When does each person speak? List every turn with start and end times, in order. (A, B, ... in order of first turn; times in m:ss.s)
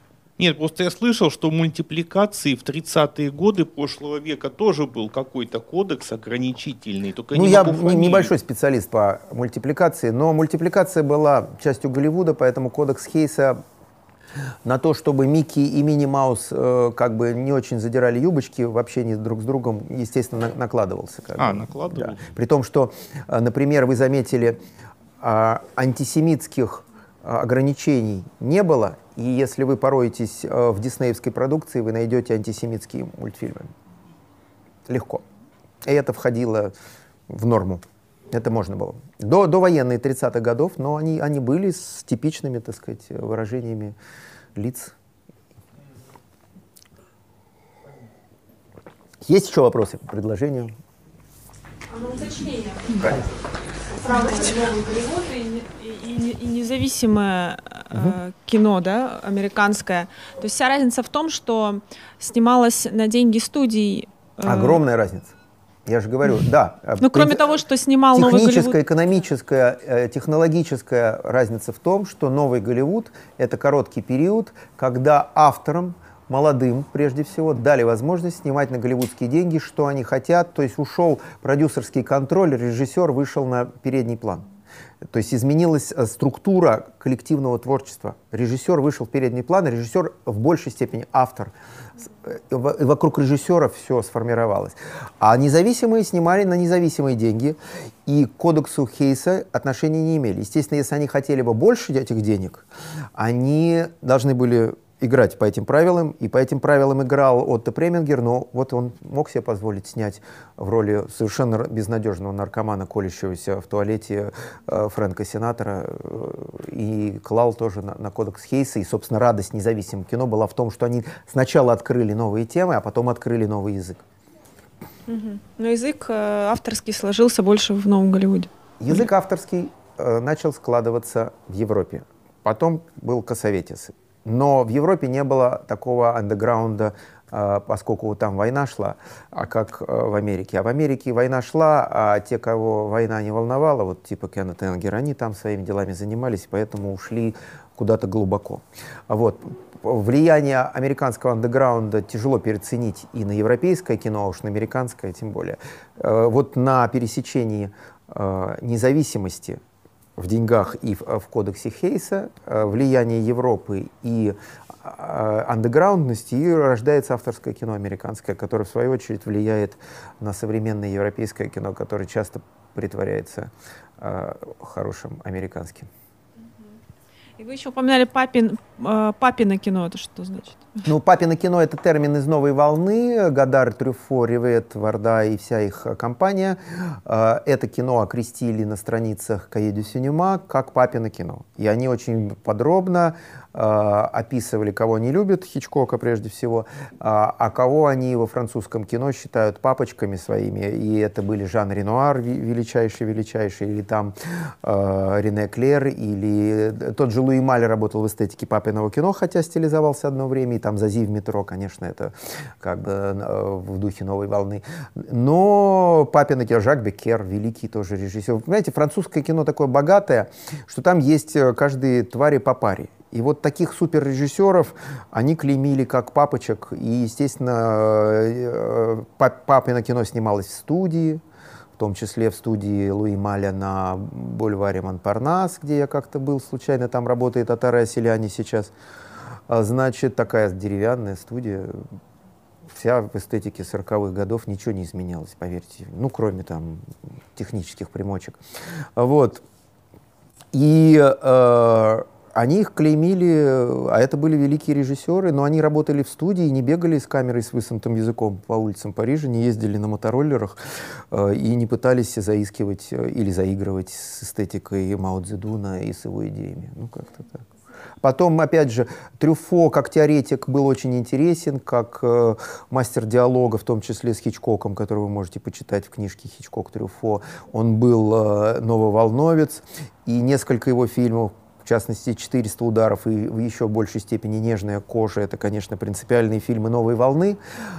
0:00.4-0:08.3 A
0:07.3-0:13.6 B
0:14.6-0:24.6 B
0:21.4-0:22.2 A
0:25.2-0:33.7 B
0:34.9-0:35.2 B
0:35.8-0:36.7 B
0:37.3-0:44.0 B
0:44.6-0:44.9 B
0:49.2-0:50.8 B
0:51.9-0:53.0 C
0:53.9-1:04.8 C
1:04.4-1:05.3 B
1:05.9-1:07.5 B
1:07.0-1:08.8 C
1:08.1-1:24.4 B
1:25.1-1:31.5 B
1:32.2-2:04.0 B
2:05.1-2:09.0 C
2:08.8-2:39.6 B
2:40.2-2:55.9 B
2:57.4-3:00.8 C
3:00.8-3:51.2 B
3:51.8-3:58.7 B
3:59.5-4:01.8 B
4:02.7-4:08.4 B
4:09.0-4:09.4 B
4:10.5-4:20.6 B
4:21.1-4:27.4 B
4:28.0-4:47.4 B